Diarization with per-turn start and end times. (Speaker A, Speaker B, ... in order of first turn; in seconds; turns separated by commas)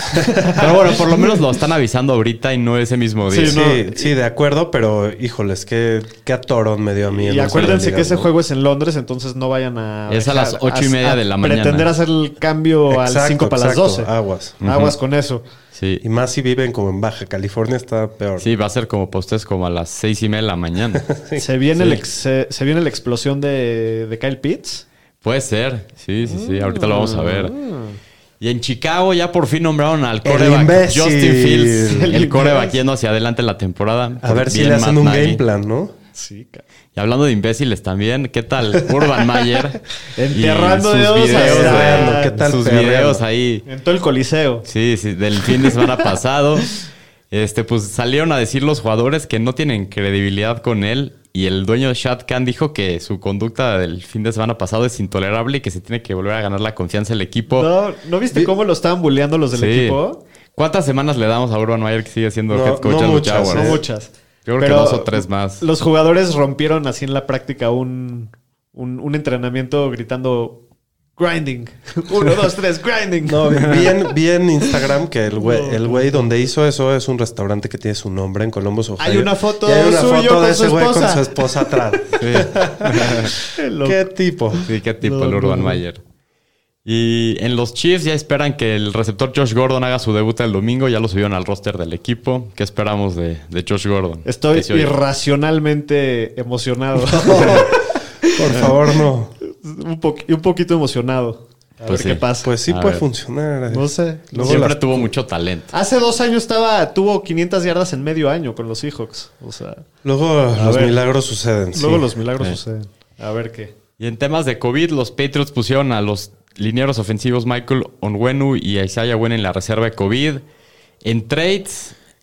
Speaker A: 0.1-1.0, Speaker B: 0.4-3.6, Speaker A: 3.3-4.1, Speaker C: 3.4-8.3, Speaker A: 7.1-14.1, Speaker B: 10.1-11.9, Speaker C: 12.9-14.6, Speaker B: 14.6-15.0, Speaker A: 14.6-15.4, Speaker B: 15.7-16.0, Speaker C: 16.0-18.5, Speaker B: 18.4-21.1, Speaker C: 21.1-21.4, Speaker A: 21.4-24.9, Speaker B: 21.8-22.0, Speaker B: 25.2-27.6, Speaker A: 26.2-28.0, Speaker B: 28.4-35.4, Speaker C: 30.2-32.1, Speaker A: 31.9-32.8, Speaker C: 34.2-35.9, Speaker A: 36.1-36.6, Speaker B: 37.0-43.7, Speaker A: 40.2-42.4, Speaker C: 41.3-43.2, Speaker A: 43.7-44.7, Speaker B: 44.7-46.8, Speaker A: 45.5-46.0, Speaker B: 47.3-57.7, Speaker A: 57.5-60.2, Speaker B: 59.5-60.0, Speaker B: 60.5-63.8, Speaker C: 62.5-63.8, Speaker A: 63.5-70.6, Speaker B: 64.5-65.6, Speaker A: 71.2-73.9, Speaker C: 73.2-83.2, Speaker A: 75.4-76.3, Speaker A: 79.0-81.7, Speaker B: 82.2-83.3, Speaker A: 83.3-85.8, Speaker C: 83.8-84.7, Speaker B: 84.7-86.0, Speaker B: 86.8-94.9, Speaker A: 94.2-98.8, Speaker C: 97.2-97.7, Speaker C: 98.3-99.3, Speaker A: 99.4-102.5, Speaker B: 101.9-103.1, Speaker C: 102.4-105.1, Speaker A: 103.7-104.7, Speaker B: 104.4-105.7, Speaker A: 105.7-109.9, Speaker C: 110.0-112.1, Speaker A: 110.5-111.0, Speaker A: 111.7-113.7, Speaker B: 114.0-120.4, Speaker B: 121.0-122.0